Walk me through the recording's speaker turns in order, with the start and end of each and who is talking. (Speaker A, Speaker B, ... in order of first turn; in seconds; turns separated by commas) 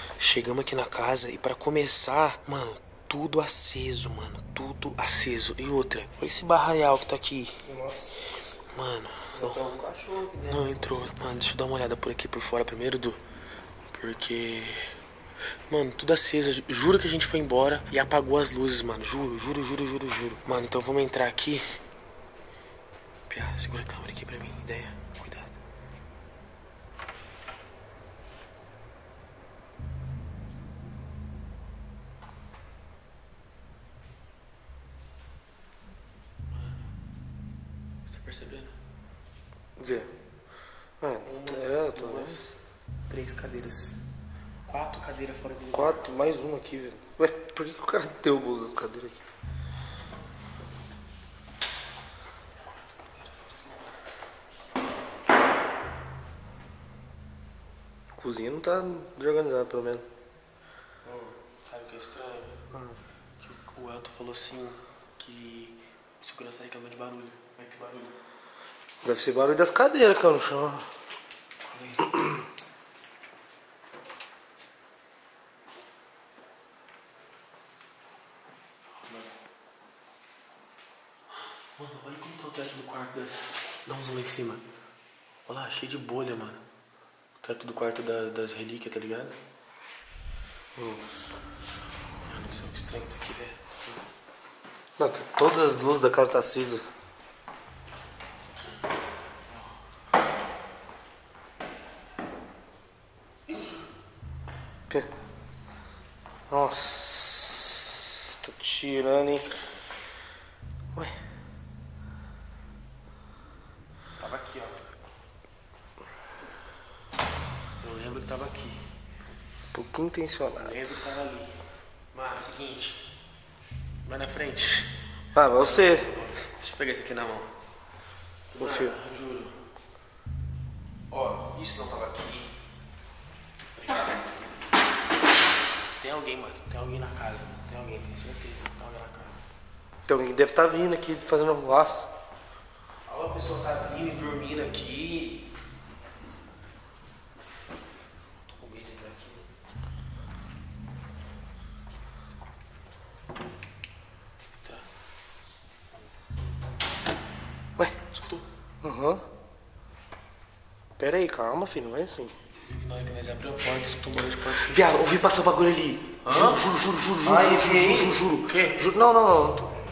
Speaker A: 0.2-7.6, Speaker B: 7.6-8.2, Speaker A: 8.7-9.6, Speaker B: 9.3-11.0, Speaker A: 10.4-13.2, Speaker A: 13.9-15.0, Speaker A: 15.7-21.8, Speaker A: 23.3-25.5, Speaker A: 36.5-36.8, Speaker A: 38.0-38.7, Speaker B: 39.8-40.1, Speaker B: 41.0-42.4, Speaker A: 41.2-44.0, Speaker A: 44.7-46.1, Speaker B: 45.7-49.2, Speaker A: 52.6-53.6, Speaker B: 58.1-60.0, Speaker A: 61.0-62.6, Speaker B: 62.7-63.0, Speaker A: 63.4-68.2, Speaker B: 69.0-70.9, Speaker A: 71.6-72.1, Speaker B: 72.0-72.5, Speaker A: 79.0-79.3, Speaker A: 81.7-84.6, Speaker A: 85.5-86.6, Speaker A: 87.4-89.3, Speaker B: 90.8-91.3, Speaker A: 92.2-94.0, Speaker B: 95.0-96.8, Speaker B: 106.5-109.6, Speaker A: 114.2-114.8, Speaker A: 117.8-118.8, Speaker B: 119.7-120.7, Speaker A: 120.6-121.5, Speaker A: 122.1-123.0, Speaker A: 124.0-124.9, Speaker B: 125.3-126.1, Speaker A: 125.5-127.5, Speaker A: 128.5-129.5, Speaker B: 128.6-129.0, Speaker A: 131.1-132.5, Speaker A: 133.7-134.5, Speaker A: 136.0-139.4, Speaker B: 140.1-142.1, Speaker A: 143.1-145.5, Speaker A: 148.5-149.4, Speaker A: 158.1-158.4, Speaker B: 158.8-159.2, Speaker B: 161.0-162.3, Speaker A: 162.5-164.8, Speaker B: 164.4-169.7, Speaker A: 166.2-168.8